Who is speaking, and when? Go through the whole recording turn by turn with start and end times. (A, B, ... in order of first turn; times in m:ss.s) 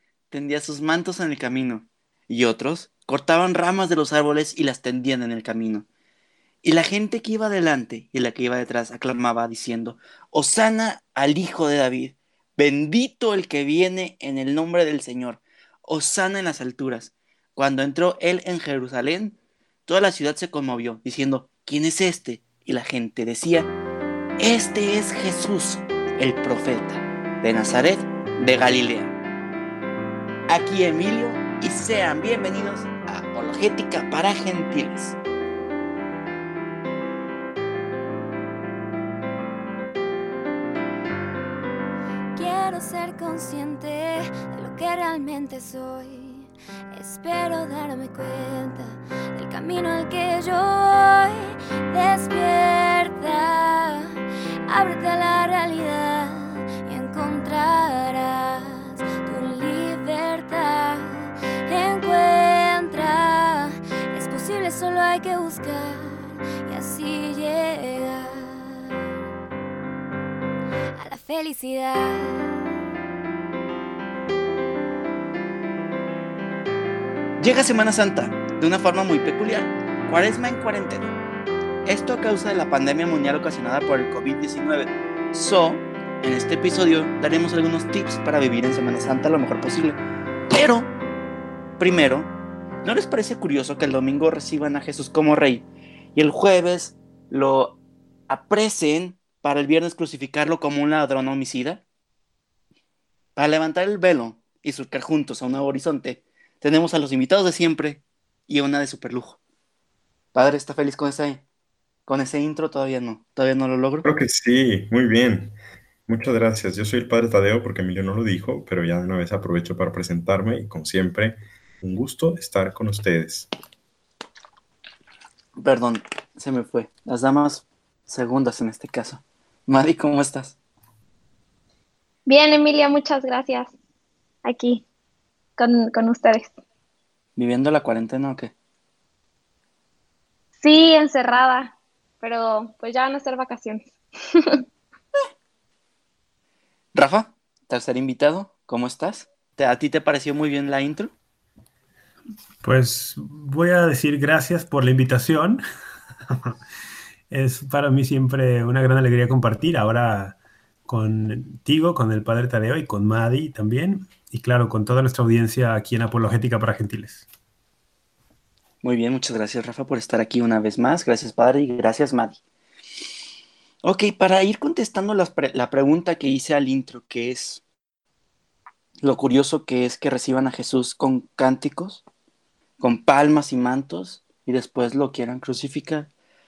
0:00.3-0:05.9 A
0:06.6-0:23.7 A
0:24.4-0:29.1 A
0:30.5-0:35.2 A
0:42.4-1:08.9 B
1:11.0-1:12.6 B
1:17.4-1:21.1 A
1:21.8-1:30.0 A
1:30.5-1:30.9 A
1:31.8-1:32.3 A
1:32.8-1:37.8 A
1:38.3-1:41.8 A
1:43.4-1:49.4 A
1:50.3-1:51.4 A
1:52.1-1:54.1 A
1:54.0-1:55.6 C
1:56.1-2:03.5 C
2:05.6-2:10.6 A
2:12.3-2:13.7 D
2:14.4-2:14.8 D
2:15.6-2:16.6 D
2:17.4-2:18.5 A
2:20.6-2:23.8 D
2:24.3-2:24.6 D
2:26.9-2:31.1 A
2:32.6-2:35.6 E
2:36.3-2:36.6 E
2:37.3-2:47.2 E
2:48.8-2:52.4 A
2:53.8-2:57.6 A
2:59.0-3:02.0 A
3:02.8-3:06.1 A